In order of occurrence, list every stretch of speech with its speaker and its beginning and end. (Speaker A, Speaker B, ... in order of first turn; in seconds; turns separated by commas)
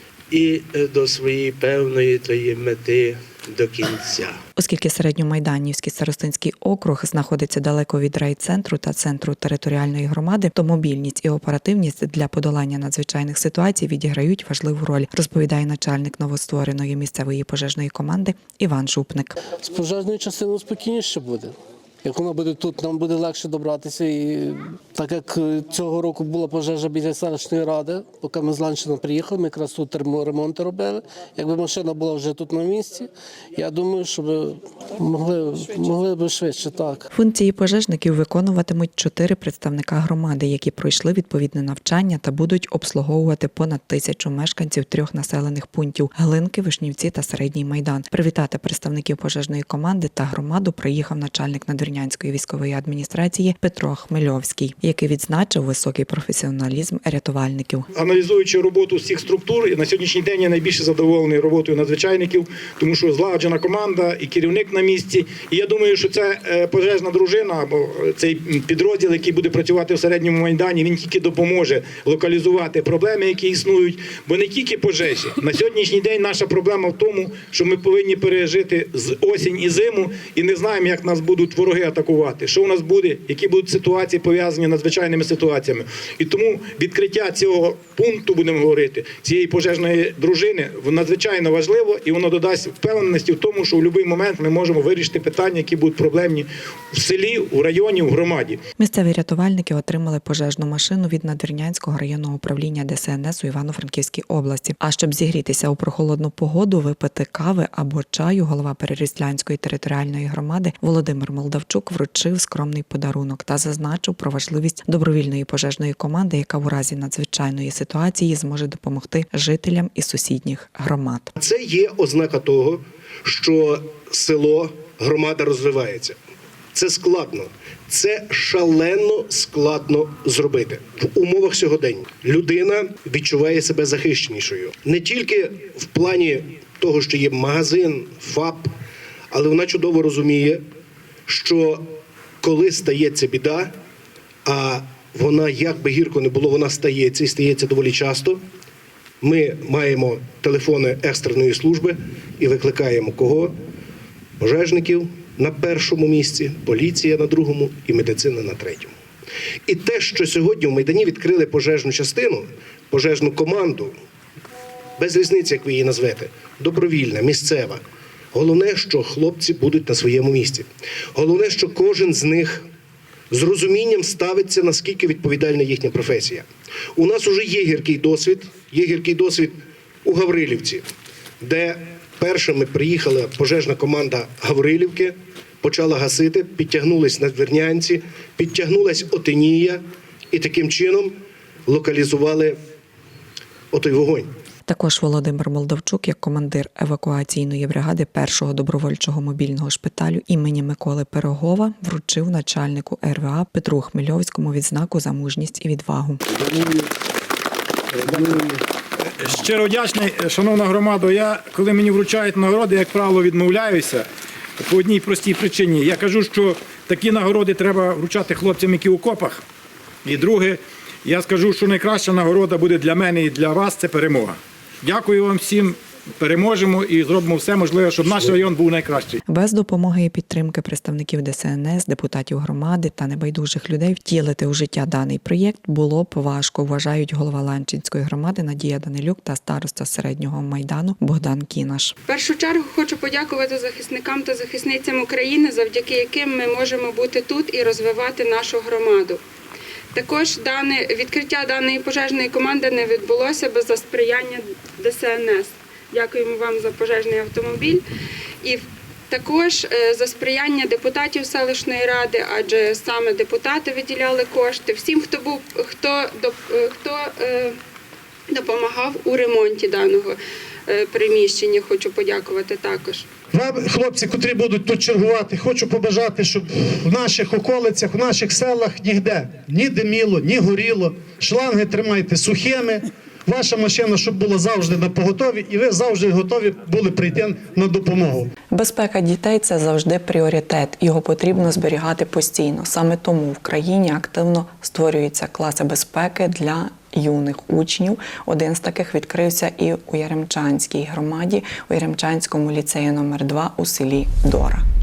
Speaker A: 0.3-4.4, Speaker B: 4.6-19.4, Speaker C: 19.6-37.0, Speaker B: 37.1-57.9, Speaker D: 57.9-98.6, Speaker B: 98.8-121.3, Speaker E: 121.4-126.2, Speaker E: 126.7-138.7, Speaker E: 139.3-140.6, Speaker E: 141.3-141.9, Speaker E: 142.4-143.7, Speaker E: 144.4-148.4, Speaker E: 149.2-153.5, Speaker E: 154.4-158.9, Speaker E: 159.7-163.9, Speaker E: 165.0-167.8, Speaker E: 168.3-172.7, Speaker E: 173.3-180.9, Speaker E: 181.4-192.6, Speaker E: 193.7-194.3, Speaker B: 194.7-206.2, Speaker D: 209.2-214.0, Speaker D: 214.6-219.4, Speaker D: 220.0-229.2, Speaker B: 229.3-241.9, Speaker F: 242.1-249.2, Speaker F: 249.9-257.8, Speaker F: 258.4-267.6, Speaker F: 268.3-273.0, Speaker G: 273.3-288.3, Speaker B: 288.5-304.6